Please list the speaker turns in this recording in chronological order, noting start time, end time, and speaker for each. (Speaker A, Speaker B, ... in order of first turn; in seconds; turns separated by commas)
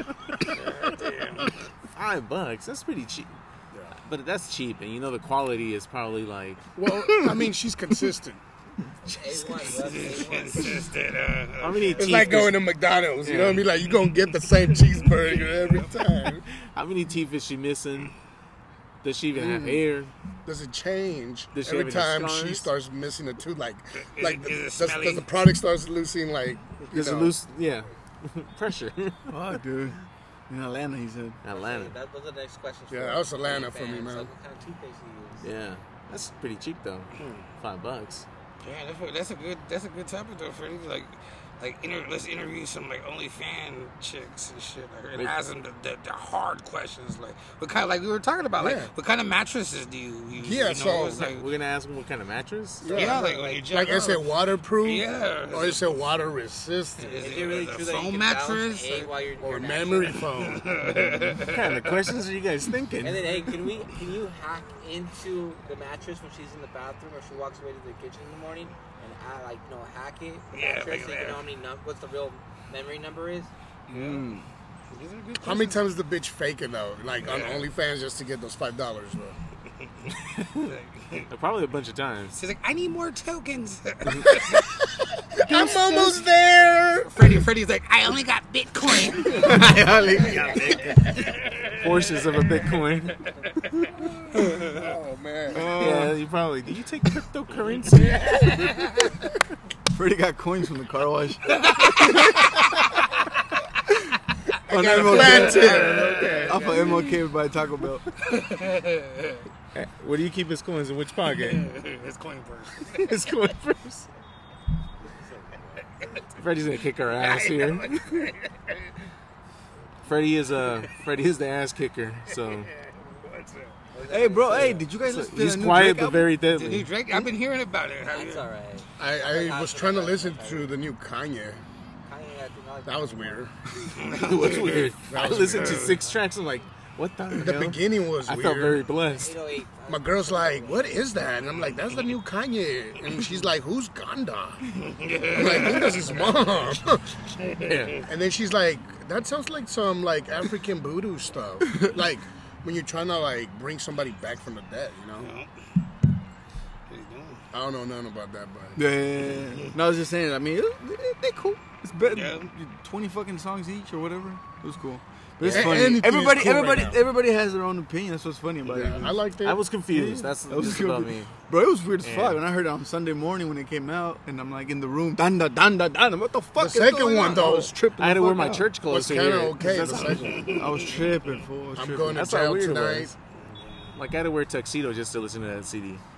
Speaker A: 0.6-1.6, Speaker B: 1.9-3.4, Speaker B: 4.0-6.6, Speaker C: 6.7-8.4, Speaker D: 6.9-7.5, Speaker E: 9.0-10.8, Speaker A: 9.6-12.5, Speaker B: 11.6-12.6, Speaker C: 12.0-16.4, Speaker B: 13.2-13.7, Speaker A: 14.9-15.9, Speaker B: 16.5-18.1, Speaker B: 19.0-20.1, Speaker C: 19.3-19.8, Speaker C: 20.4-27.4, Speaker B: 21.5-22.7, Speaker A: 24.1-25.3, Speaker B: 26.9-29.6, Speaker D: 29.3-30.0, Speaker D: 30.5-31.4, Speaker B: 31.4-31.9, Speaker E: 31.5-35.5, Speaker C: 32.9-34.3, Speaker B: 35.4-38.2, Speaker A: 38.6-51.5, Speaker C: 48.6-48.9, Speaker C: 50.4-51.3, Speaker B: 51.0-53.2, Speaker C: 52.8-57.2, Speaker A: 52.9-56.0, Speaker A: 57.0-59.2, Speaker E: 57.2-60.3, Speaker C: 59.4-60.7, Speaker A: 60.2-62.0, Speaker B: 61.2-63.5, Speaker E: 63.0-73.5, Speaker A: 70.5-71.5, Speaker A: 73.9-74.3, Speaker D: 73.9-74.4, Speaker A: 74.9-75.8, Speaker C: 75.4-79.4, Speaker A: 77.2-77.7, Speaker A: 80.6-81.3, Speaker B: 81.3-82.4, Speaker A: 82.3-84.8, Speaker C: 85.3-87.4, Speaker A: 85.4-86.2, Speaker A: 87.0-92.6, Speaker E: 89.0-91.2, Speaker D: 89.2-90.8, Speaker B: 91.8-93.2, Speaker A: 93.4-94.9, Speaker C: 94.3-95.7, Speaker D: 95.5-96.2, Speaker B: 95.8-98.5, Speaker A: 98.2-99.1, Speaker D: 99.9-102.8, Speaker A: 101.6-102.4, Speaker D: 104.7-108.0, Speaker C: 104.7-106.2, Speaker A: 104.8-106.7, Speaker B: 104.9-107.1, Speaker A: 108.2-109.4, Speaker B: 109.7-111.7, Speaker A: 111.4-113.1, Speaker B: 112.9-114.1, Speaker E: 115.1-115.8, Speaker B: 116.4-117.9, Speaker A: 117.1-118.4, Speaker B: 120.0-122.7, Speaker A: 122.7-123.7, Speaker E: 123.9-124.9, Speaker D: 124.0-126.3, Speaker B: 125.0-126.9, Speaker A: 126.5-128.5, Speaker E: 128.1-130.7, Speaker C: 129.0-131.6, Speaker E: 132.0-133.5, Speaker C: 132.8-133.5, Speaker A: 133.9-136.0, Speaker B: 134.2-139.4, Speaker C: 135.1-136.0, Speaker C: 137.3-138.9, Speaker E: 139.1-141.0, Speaker C: 139.9-144.7, Speaker A: 144.7-146.4, Speaker C: 145.3-147.2, Speaker A: 147.3-148.1, Speaker B: 147.7-148.0, Speaker C: 148.1-155.3, Speaker D: 151.7-151.9, Speaker A: 155.2-155.5, Speaker A: 156.9-157.4, Speaker C: 157.5-158.8, Speaker D: 158.8-169.2, Speaker A: 159.3-159.7, Speaker A: 162.0-162.5, Speaker B: 165.4-165.8, Speaker C: 165.4-167.0, Speaker C: 168.6-169.6, Speaker B: 169.4-171.3, Speaker D: 169.9-178.7, Speaker B: 172.0-172.4, Speaker C: 176.6-177.8, Speaker B: 178.0-180.5, Speaker C: 178.8-180.7, Speaker A: 180.2-181.1, Speaker D: 180.5-182.3, Speaker C: 181.7-183.1, Speaker B: 182.1-183.1, Speaker A: 183.4-183.9, Speaker B: 183.9-186.0